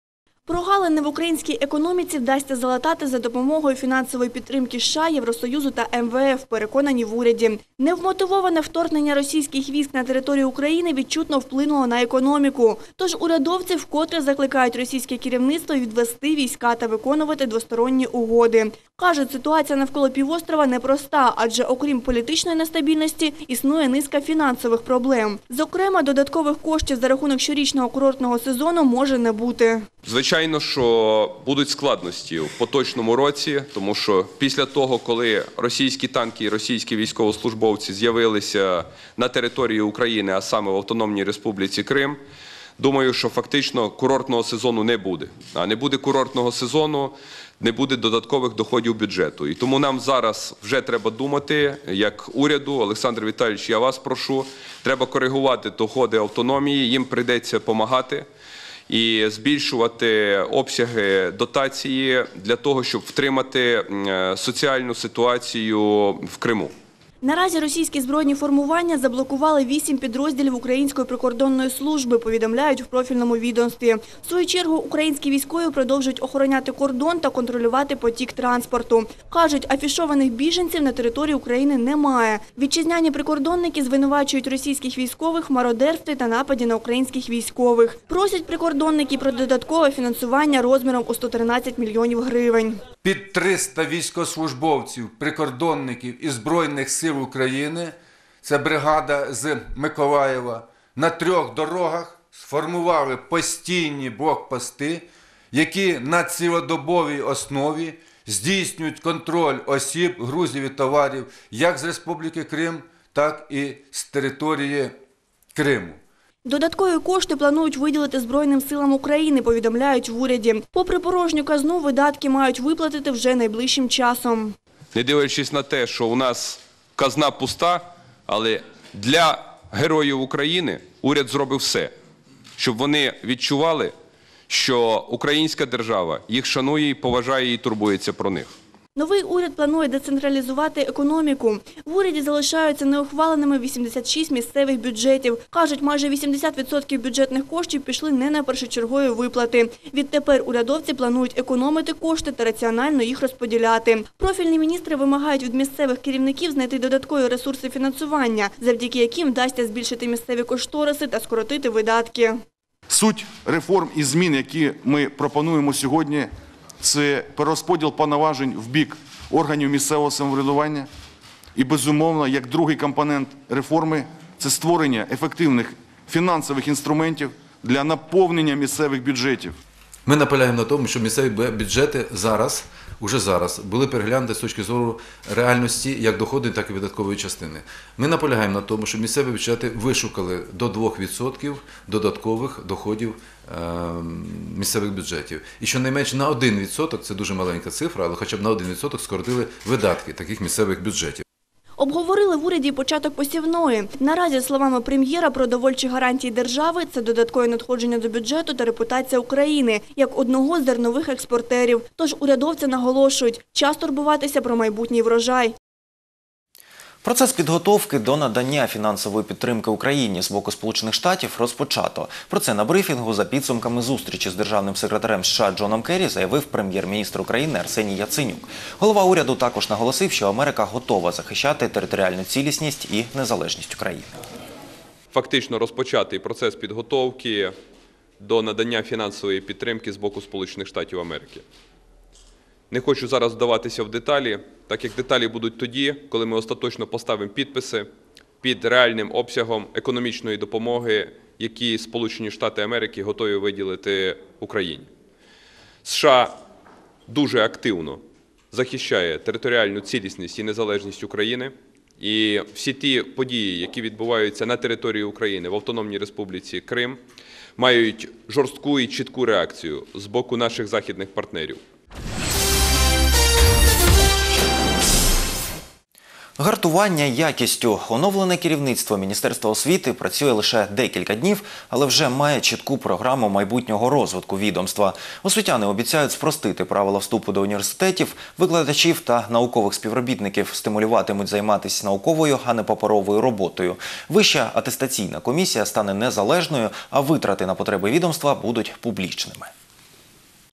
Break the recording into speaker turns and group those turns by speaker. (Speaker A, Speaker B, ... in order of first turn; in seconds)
Speaker A: 0.5-29.9, 67.2-92.8, 116.4-124.5, 138.9-162.4, 201.8-215.5
Speaker B: 30.0-42.2, 42.8-58.3, 58.9-66.7, 124.9-131.9, 132.6-133.9, 134.5-138.5, 235.1-237.5, 238.2-241.4, 242.7-247.9, 248.4-254.9, 255.8-256.4, 257.1-267.0, 267.6-271.6
Speaker C: 93.0-114.9, 115.5-116.0
Speaker D: 162.9-170.9, 171.6-179.5
Speaker E: 180.1-201.2
Speaker F: 217.0-234.1, 276.4-299.5